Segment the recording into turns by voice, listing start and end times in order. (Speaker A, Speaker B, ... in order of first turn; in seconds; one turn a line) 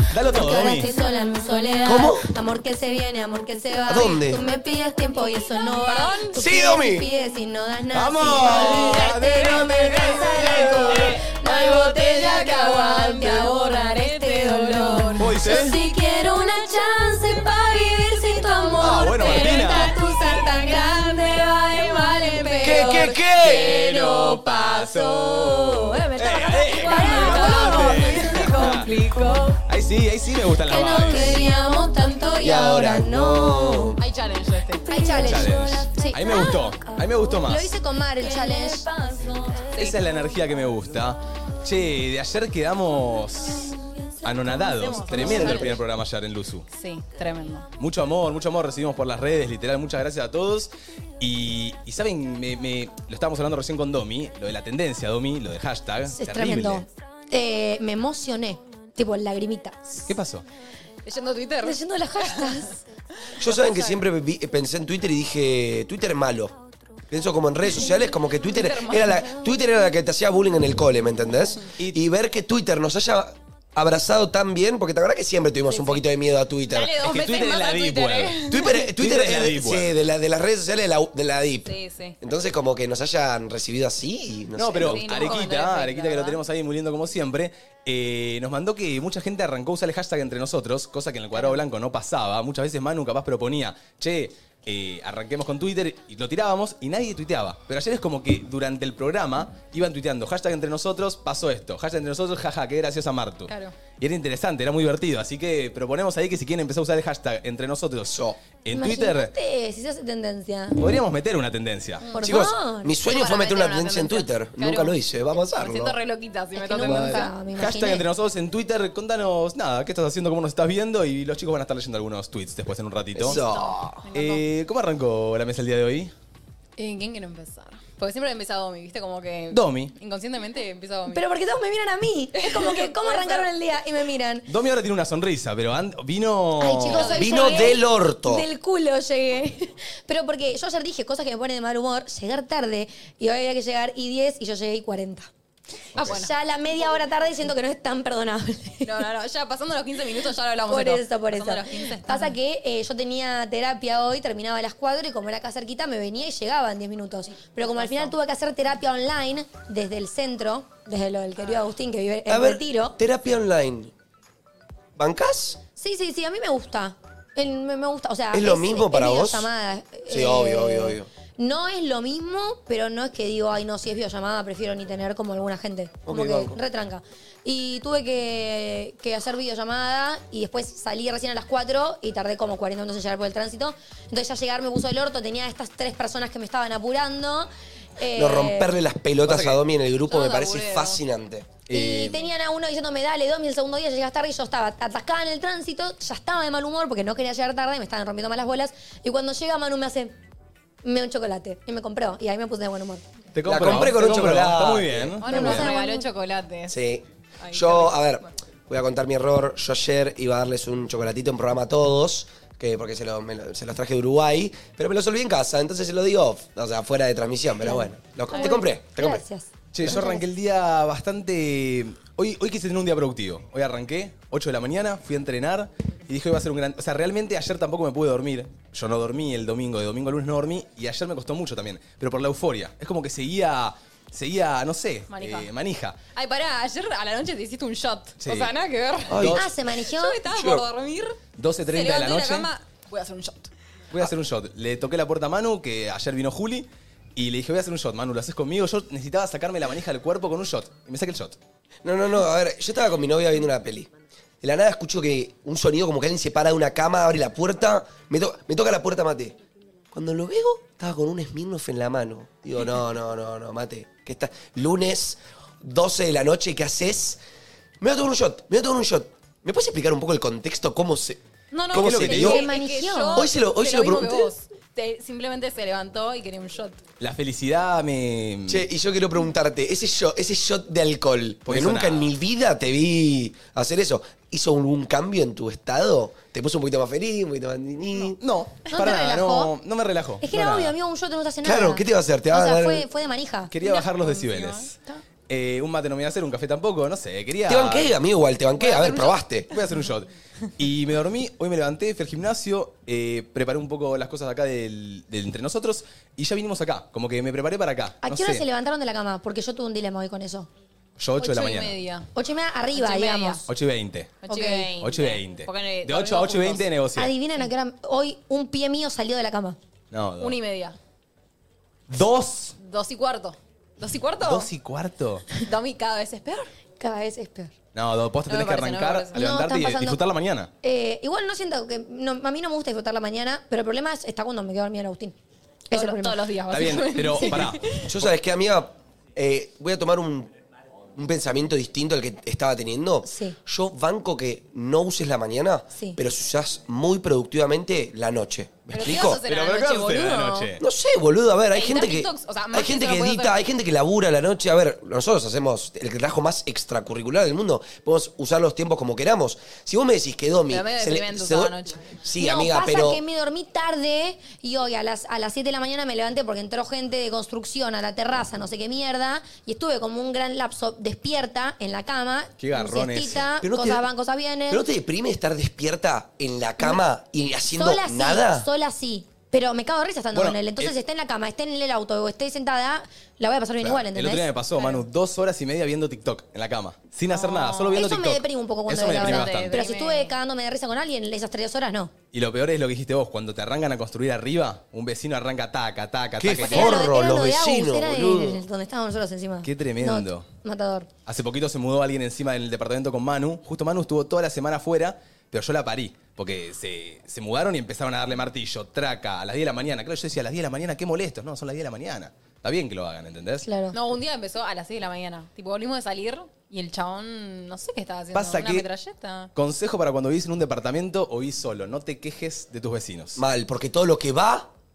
Speaker A: 0.1-0.9
Speaker B: 0.3-29.6
Speaker C: 1.9-2.3
Speaker C: 3.9-4.4
Speaker D: 5.8-6.4
Speaker C: 6.3-7.1
Speaker A: 7.9-11.2
Speaker D: 8.7-9.0
Speaker D: 10.2-15.9
Speaker A: 15.2-15.8
Speaker D: 18.6-23.9
Speaker A: 18.8-20.0
Speaker C: 22.6-23.7
Speaker A: 23.4-28.9
Speaker D: 26.6-29.6
Speaker A: 29.7-31.5
Speaker B: 30.6-34.0
Speaker C: 32.4-34.0
Speaker D: 34.0-35.1
Speaker B: 34.9-39.8
Speaker A: 35.1-37.8
Speaker D: 38.2-40.0
Speaker A: 39.8-46.7
Speaker B: 43.5-45.8
Speaker D: 44.6-45.8
Speaker D: 46.7-47.7
Speaker A: 47.8-56.9
Speaker B: 56.1-60.1
Speaker A: 60.1-60.5
Speaker D: 61.0-62.8
Speaker B: 61.6-62.8
Speaker D: 63.3-64.0
Speaker C: 63.4-66.5
Speaker C: 67.1-77.0
Speaker D: 68.5-69.2
Speaker B: 69.1-69.7
Speaker D: 75.7-76.0
Speaker D: 76.7-78.9
Speaker A: 77.0-78.4
Speaker C: 78.5-85.3
Speaker A: 78.9-80.0
Speaker D: 81.7-82.2
Speaker A: 84.6-109.3
Speaker D: 84.8-86.4
Speaker D: 103.5-103.8
Speaker C: 108.1-108.4
Speaker B: 108.7-111.0
Speaker A: 110.8-112.1
Speaker D: 112.0-112.4
Speaker B: 112.1-113.0
Speaker C: 112.2-116.0
Speaker D: 113.0-115.0
Speaker D: 115.5-117.3
Speaker B: 116.6-118.0
Speaker C: 116.8-117.3
Speaker A: 117.6-123.4
Speaker C: 123.2-124.0
Speaker D: 123.3-124.4
Speaker A: 124.1-126.1
Speaker D: 126.8-131.2
Speaker A: 129.5-129.9
Speaker B: 131.1-134.5
Speaker D: 132.3-133.5
Speaker A: 134.5-137.1
Speaker B: 136.6-145.3
Speaker D: 136.9-137.8
Speaker C: 137.1-138.5
Speaker D: 145.9-146.3
Speaker B: 146.0-149.1
Speaker D: 148.8-152.4
Speaker B: 150.7-163.0
Speaker D: 157.8-158.1
Speaker C: 162.3-163.9
Speaker C: 165.0-165.6
Speaker B: 165.8-188.8
Speaker C: 168.3-169.5
Speaker C: 170.1-171.1
Speaker C: 176.1-176.6
Speaker C: 188.2-191.5
Speaker A: 189.2-189.6
Speaker D: 190.1-191.0
Speaker A: 191.7-192.3
Speaker B: 191.7-200.2
Speaker B: 200.8-203.0
Speaker A: 203.3-205.7
Speaker C: 203.5-205.2
Speaker D: 205.2-206.8
Speaker B: 205.2-206.1
Speaker C: 206.7-219.2
Speaker D: 207.4-208.0
Speaker B: 217.6-220.3
Speaker D: 218.3-218.6
Speaker A: 219.7-236.0
Speaker D: 235.1-235.5
Speaker D: 236.2-239.2
Speaker A: 238.2-238.5
Speaker A: 239.1-239.5
Speaker C: 239.1-239.5
Speaker B: 239.3-240.2
Speaker D: 239.8-241.2
Speaker C: 240.3-240.6
Speaker A: 241.4-242.5
Speaker D: 241.7-243.5
Speaker A: 243.9-251.4
Speaker C: 251.8-253.9
Speaker C: 254.4-259.4
Speaker C: 259.9-267.2
Speaker C: 267.8-271.2
Speaker D: 271.5-276.8
Speaker C: 271.7-272.4
Speaker A: 271.7-272.4
Speaker B: 272.1-273.3
Speaker C: 273.1-274.3
Speaker A: 277.0-278.6
Speaker C: 278.5-288.2
Speaker A: 281.5-282.1
Speaker A: 288.2-290.7
Speaker B: 288.7-289.5
Speaker B: 290.2-293.5
Speaker C: 291.4-292.9
Speaker A: 293.5-294.8
Speaker D: 293.6-295.0
Speaker A: 295.3-297.9
Speaker C: 297.5-299.5
Speaker D: 298.7-299.1
Speaker A: 299.5-308.4
Speaker B: 308.0-310.5
Speaker A: 311.0-311.7
Speaker D: 311.2-312.1
Speaker B: 312.1-313.5
Speaker D: 312.7-313.4
Speaker A: 313.5-314.2
Speaker D: 314.2-316.7
Speaker B: 314.3-314.8
Speaker A: 314.8-317.1
Speaker B: 316.9-319.6
Speaker A: 319.9-320.4
Speaker D: 320.2-320.8
Speaker A: 321.9-322.6
Speaker D: 322.6-324.5
Speaker A: 324.2-325.3
Speaker D: 325.3-326.5
Speaker B: 326.8-327.5
Speaker A: 327.7-330.5
Speaker D: 328.3-329.1
Speaker B: 329.1-330.0
Speaker B: 330.6-335.2
Speaker B: 335.7-336.2
Speaker D: 335.7-337.9
Speaker A: 336.5-337.8
Speaker C: 337.8-340.3
Speaker C: 341.0-349.2
Speaker B: 343.0-343.4
Speaker B: 345.7-346.0
Speaker D: 348.7-350.5
Speaker A: 349.2-350.6
Speaker C: 350.6-363.0
Speaker D: 351.5-353.4
Speaker D: 360.5-361.9
Speaker B: 362.2-374.6
Speaker A: 372.4-373.2
Speaker C: 373.4-373.9
Speaker C: 374.5-378.5
Speaker B: 377.5-384.3
Speaker A: 380.1-380.7
Speaker A: 383.6-389.6
Speaker D: 384.6-384.8
Speaker D: 387.1-387.8
Speaker B: 387.7-391.9
Speaker D: 388.9-390.1
Speaker A: 392.1-396.9
Speaker C: 396.2-398.4
Speaker B: 396.4-400.9
Speaker A: 399.4-400.3
Speaker A: 401.1-413.5
Speaker B: 413.4-413.8
Speaker D: 413.7-419.3
Speaker A: 418.1-418.7
Speaker A: 419.4-423.2
Speaker C: 423.2-424.5